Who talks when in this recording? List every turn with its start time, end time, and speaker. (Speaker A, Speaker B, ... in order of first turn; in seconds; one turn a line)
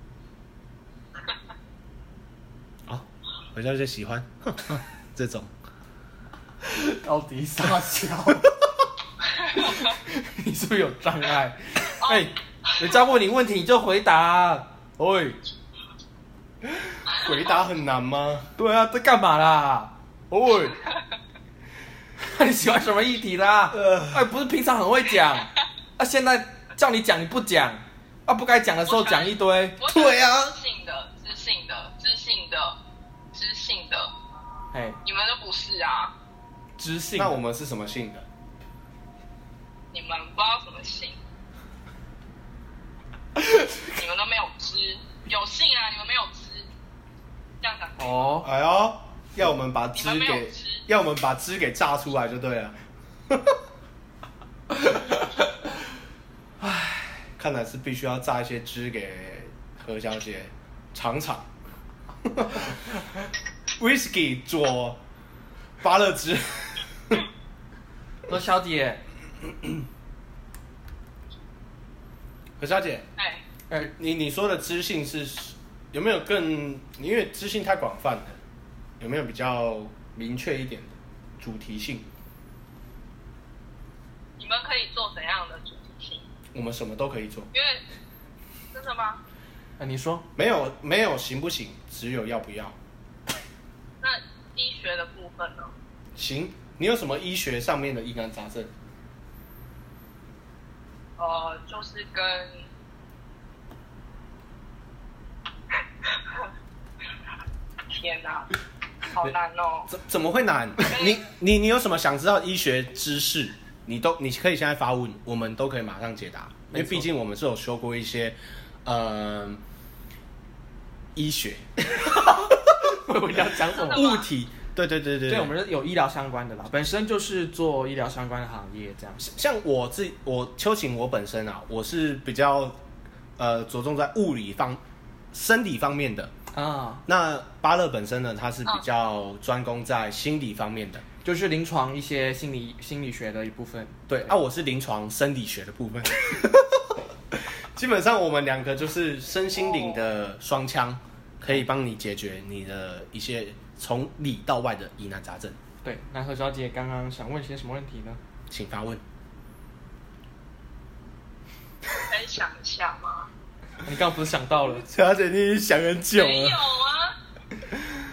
Speaker A: 2.9-5.5
Speaker B: 6.7-8.6
Speaker B: 9.5-15.4
Speaker C: 12.0-12.3
Speaker A: 17.1-18.5
Speaker B: 18.6-20.8
Speaker B: 22.2-29.8
Speaker A: 23.7-24.3
Speaker C: 28.9-32.8
Speaker A: 29.9-30.6
Speaker C: 33.3-34.1
Speaker B: 34.7-35.0
Speaker C: 35.0-36.1
Speaker B: 36.8-37.4
Speaker A: 37.2-38.2
Speaker C: 39.9-41.2
Speaker C: 43.8-46.7
Speaker C: 47.6-48.3
Speaker B: 48.0-48.5
Speaker A: 48.4-52.8
Speaker C: 50.0-50.9
Speaker A: 53.3-53.6
Speaker B: 54.8-55.1
Speaker B: 56.6-57.1
Speaker A: 57.4-61.5
Speaker A: 62.2-62.8
Speaker A: 63.8-65.0
Speaker A: 65.8-67.2
Speaker B: 68.3-69.0
Speaker A: 72.6-73.0
Speaker C: 73.2-73.4
Speaker A: 73.9-78.4
Speaker A: 79.0-82.1
Speaker C: 84.4-86.3
Speaker A: 86.5-87.5
Speaker C: 87.5-87.9
Speaker C: 88.7-89.2
Speaker B: 89.8-90.3
Speaker A: 90.4-92.8
Speaker C: 94.0-95.7
Speaker A: 96.2-98.7
Speaker C: 101.2-102.7
Speaker C: 106.0-106.5
Speaker C: 107.9-108.5
Speaker C: 109.1-109.9
Speaker A: 109.9-119.6
Speaker C: 110.8-111.2
Speaker B: 116.7-117.1
Speaker A: 121.2-122.6
Speaker B: 122.0-124.1
Speaker C: 123.8-124.3
Speaker A: 123.9-125.5
Speaker B: 125.3-129.2
Speaker A: 129.2-132.8
Speaker A: 133.4-134.8
Speaker A: 135.3-136.3
Speaker B: 136.5-137.1
Speaker A: 137.1-141.0
Speaker B: 141.2-144.0
Speaker A: 144.1-155.6
Speaker B: 155.8-158.2
Speaker A: 158.5-159.0
Speaker C: 161.9-163.3
Speaker B: 163.8-164.8
Speaker A: 164.7-166.6
Speaker C: 166.1-167.2